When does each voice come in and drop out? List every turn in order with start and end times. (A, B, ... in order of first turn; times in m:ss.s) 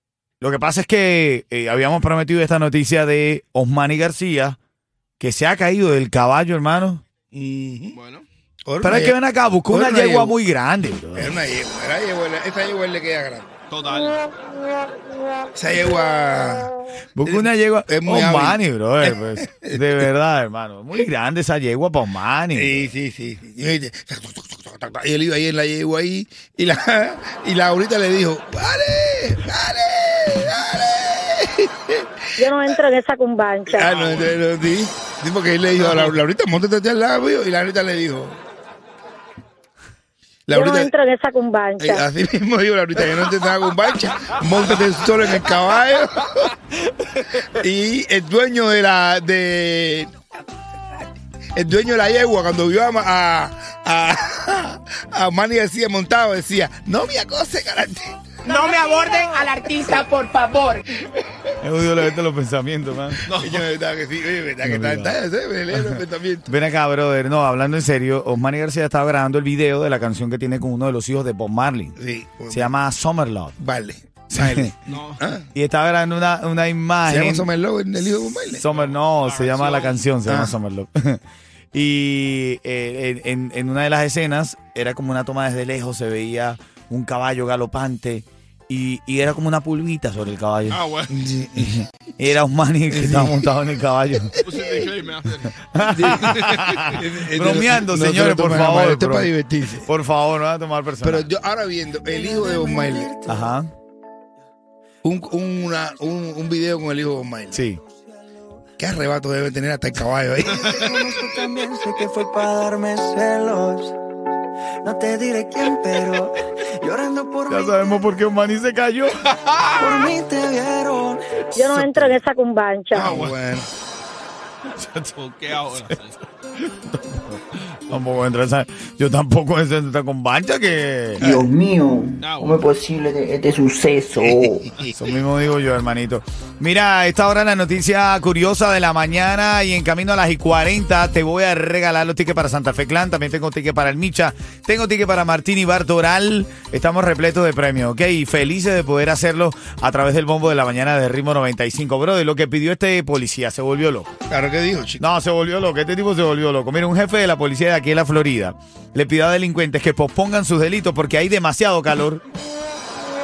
0:00.4-0:04.6 A
0:05.2-0:07.0 A
0:07.3-0:08.0 B
0:07.9-0:08.3 C
0:08.6-0:09.2 B
0:08.8-0:11.4 A
0:09.7-0:10.4 B
0:11.2-0:13.5 B
0:13.7-0:14.2 C
0:15.6-0:16.7 B
0:17.2-0:22.9 A
0:17.2-0:20.1 B
0:22.6-0:32.1 B
0:32.4-0:33.9 D
0:33.7-0:38.4 B
0:33.8-0:34.4 C
0:35.8-0:36.1 C
0:40.5-0:40.9 B
0:40.5-0:42.1 D
0:41.8-0:46.5 B
0:47.3-0:50.2 B
0:51.6-0:58.2 B
0:58.4-1:00.9 E
1:01.6-1:03.2 A
1:03.3-1:03.7 C
1:03.4-1:06.5 B
1:04.6-1:05.2 A
1:05.7-1:12.0 A
1:12.0-1:12.7 B
1:12.5-1:13.6 A
1:13.6-1:15.5 B
1:14.3-1:14.7 A
1:14.9-1:15.2 C
1:15.6-1:17.5 A
1:17.1-1:18.6 B
1:18.6-1:21.2 A
1:18.7-1:20.0 C
1:20.2-1:20.6 B
1:21.7-1:30.8 A
1:30.7-1:31.2 C
1:31.1-1:31.9 B
1:31.6-1:34.4 A
1:32.9-1:33.5 B
1:34.3-1:34.8 B
1:34.4-1:37.0 C
1:35.7-1:39.3 A
1:35.8-1:39.9 B
1:39.8-1:41.3 A
1:41.0-1:43.2 B
1:42.0-1:43.2 F
1:43.3-1:43.7 A
1:45.0-1:47.6 B
1:47.5-1:47.8 A
1:48.8-1:51.2 B
1:50.5-1:51.1 C
1:51.1-1:54.0 F
1:54.8-1:57.6 F
1:57.5-1:59.2 A
1:59.3-2:00.0 C
2:00.3-2:01.2 F
2:01.5-2:03.2 D
2:01.6-2:02.2 A
2:02.9-2:03.4 C
2:03.0-2:03.7 B
2:04.8-2:05.1 A
2:05.2-2:06.2 C
2:06.6-2:11.3 A
2:11.3-2:14.7 G
2:12.2-2:12.6 C
2:14.2-2:15.0 B
2:15.0-2:34.1 A
2:34.3-2:35.0 B
2:35.0-2:42.2 A